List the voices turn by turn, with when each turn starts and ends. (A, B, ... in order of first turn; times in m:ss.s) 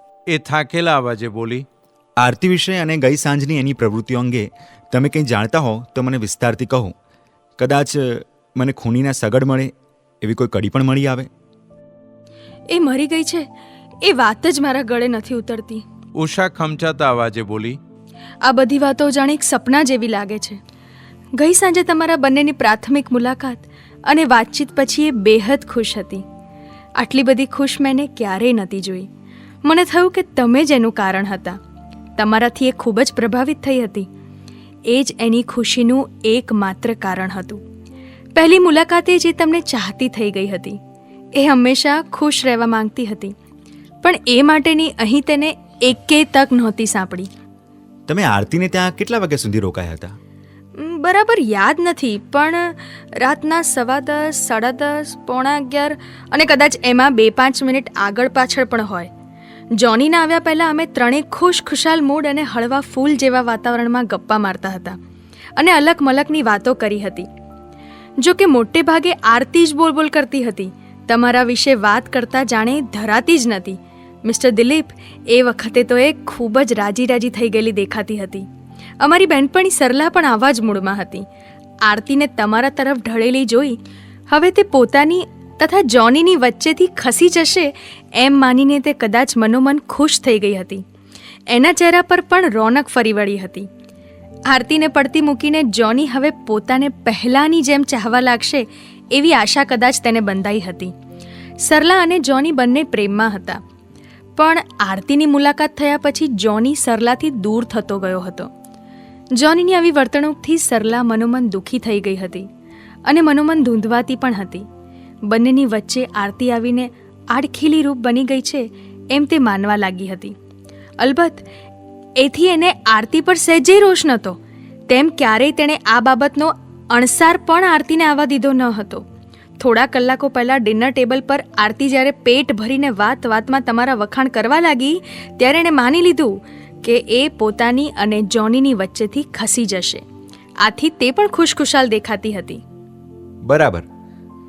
0:00.3-0:01.6 A
0:02.2-0:06.9 B
0:07.6-0:11.3 B
0:12.7-0:13.4 C
0:14.0-0:15.8 C
0:16.1-0:17.8 A
0:18.4-0:20.6 C
0:21.4-0:26.2 C
0:27.0-0:29.1 C
0:29.6-0:31.6 C
0:32.2-0:34.1 C
0:34.9-0:37.6 C
0:38.3-0:40.8 C
0:41.3-0:43.3 C
0:44.0-0:47.3 C
0:48.1-0:50.1 B
0:50.7-0:59.1 C
0:59.7-1:05.0 C
1:05.6-1:07.3 C
1:08.2-1:18.4 C
1:19.0-1:21.2 C
1:21.8-1:30.8 C
1:31.5-1:33.7 C
1:34.5-1:40.9 C
1:41.6-1:43.6 C
1:44.4-1:48.5 C
1:49.3-1:52.5 C
1:53.0-1:54.6 C
1:55.3-2:00.3 C
2:01.0-2:01.4 C
2:02.2-2:04.4 C
2:04.9-2:09.0 C
2:09.6-2:20.0 C
2:20.6-2:22.6 C
2:23.4-2:23.9 B